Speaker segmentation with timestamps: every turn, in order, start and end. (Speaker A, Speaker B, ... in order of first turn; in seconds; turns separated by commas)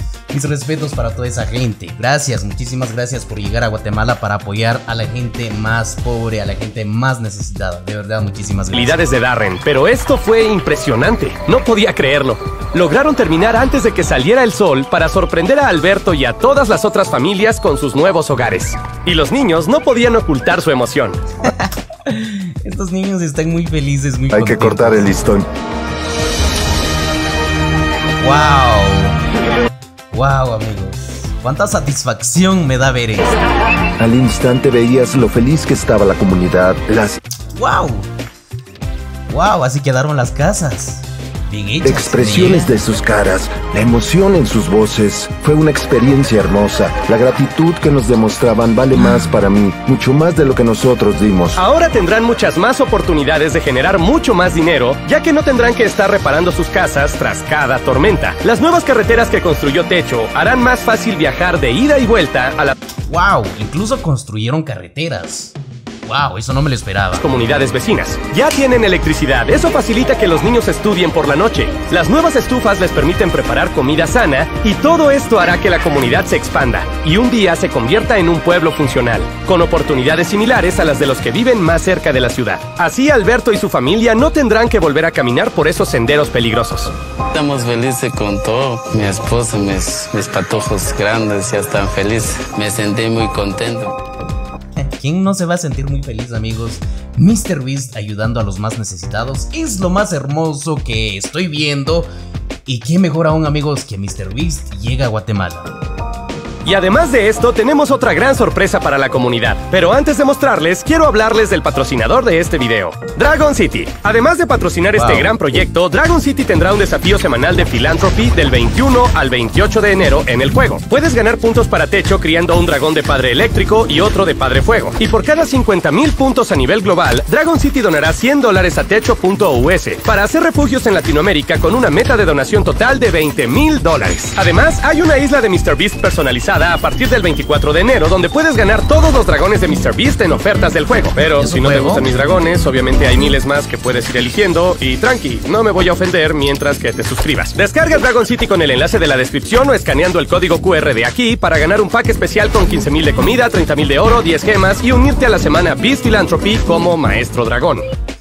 Speaker A: 0.3-9.1, Speaker B: 8.7-21.2, Speaker A: 21.4-25.2, Speaker C: 24.3-25.5, Speaker A: 28.2-29.2, Speaker A: 30.1-33.4, Speaker C: 34.0-37.2, Speaker A: 37.5-38.1, Speaker A: 39.3-42.7, Speaker C: 41.8-51.6, Speaker B: 51.5-62.8, Speaker A: 63.1-67.2, Speaker B: 67.2-86.9, Speaker D: 87.3-94.0, Speaker A: 94.8-102.1, Speaker A: 102.7-105.7, Speaker B: 106.6-157.8, Speaker A: 115.0-115.3, Speaker A: 141.4-142.1